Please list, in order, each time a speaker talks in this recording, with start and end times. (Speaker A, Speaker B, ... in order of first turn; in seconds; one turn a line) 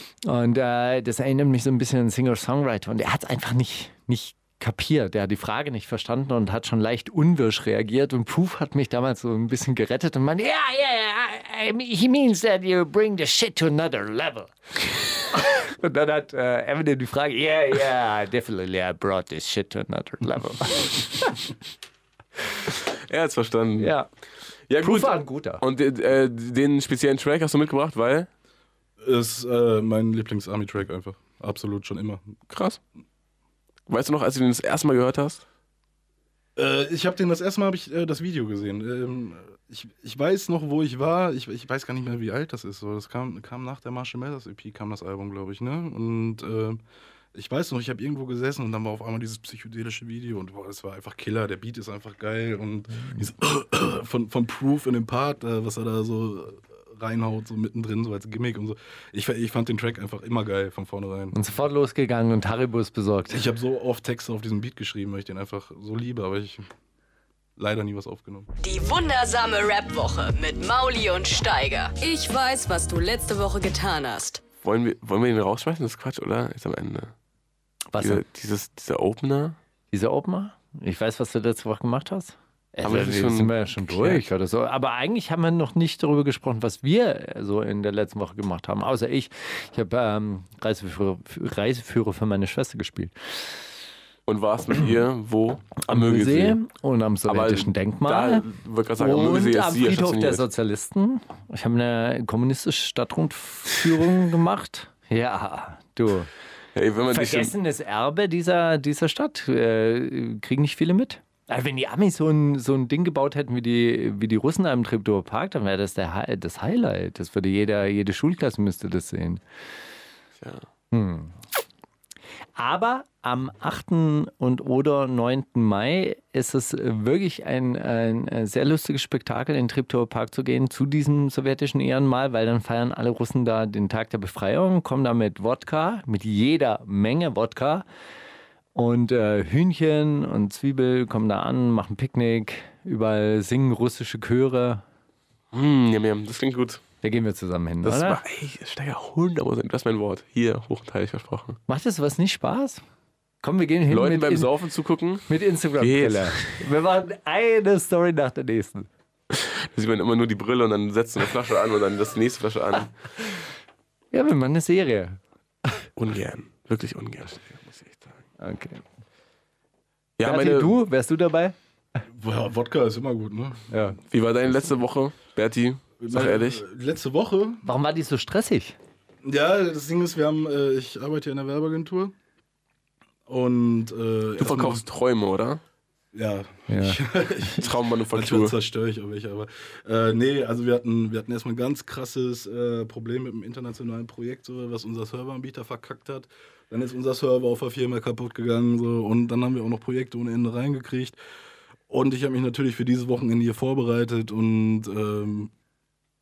Speaker A: 0.2-21.4
Speaker B: 22.7-23.9
Speaker A: 23.8-24.1
Speaker B: 24.7-28.3
Speaker A: 24.8-25.6
Speaker C: 29.0-32.3
Speaker B: 32.5-32.8
Speaker B: 33.9-35.4
Speaker C: 36.6-46.8
Speaker C: 47.3-61.4
Speaker A: 61.3-63.5
Speaker C: 63.3-66.7
Speaker C: 67.6-68.5
Speaker D: 68.6-74.4
Speaker B: 74.6-77.1
Speaker A: 77.9-78.2
Speaker B: 78.0-79.6
Speaker A: 79.9-93.1
Speaker B: 82.8-84.2
Speaker B: 94.3-96.6
Speaker A: 95.8-98.5
Speaker B: 97.3-100.4
Speaker A: 99.0-106.3
Speaker B: 106.7-107.5
Speaker A: 107.1-119.4
Speaker B: 120.4-120.7
Speaker A: 120.9-121.3
Speaker A: 122.6-137.8
Speaker A: 138.7-144.8
Speaker B: 145.5-146.8
Speaker A: 147.0-148.2
Speaker B: 147.8-151.6
Speaker A: 151.7-152.8
Speaker A: 153.4-154.5
Speaker B: 153.9-156.6
Speaker A: 155.3-158.9
Speaker B: 159.3-162.9
Speaker A: 164.1-165.8
Speaker B: 165.9-168.2
Speaker A: 168.4-168.8
Speaker B: 170.2-170.7
Speaker A: 170.2-171.5
Speaker C: 172.1-174.0
Speaker A: 173.7-174.0
Speaker B: 174.1-176.6
Speaker C: 176.0-177.7
Speaker A: 177.6-178.8
Speaker C: 179.2-182.1
Speaker C: 183.3-184.8
Speaker B: 184.4-185.6
Speaker C: 186.1-201.2
Speaker A: 186.7-187.0
Speaker B: 187.5-188.6
Speaker C: 201.9-205.5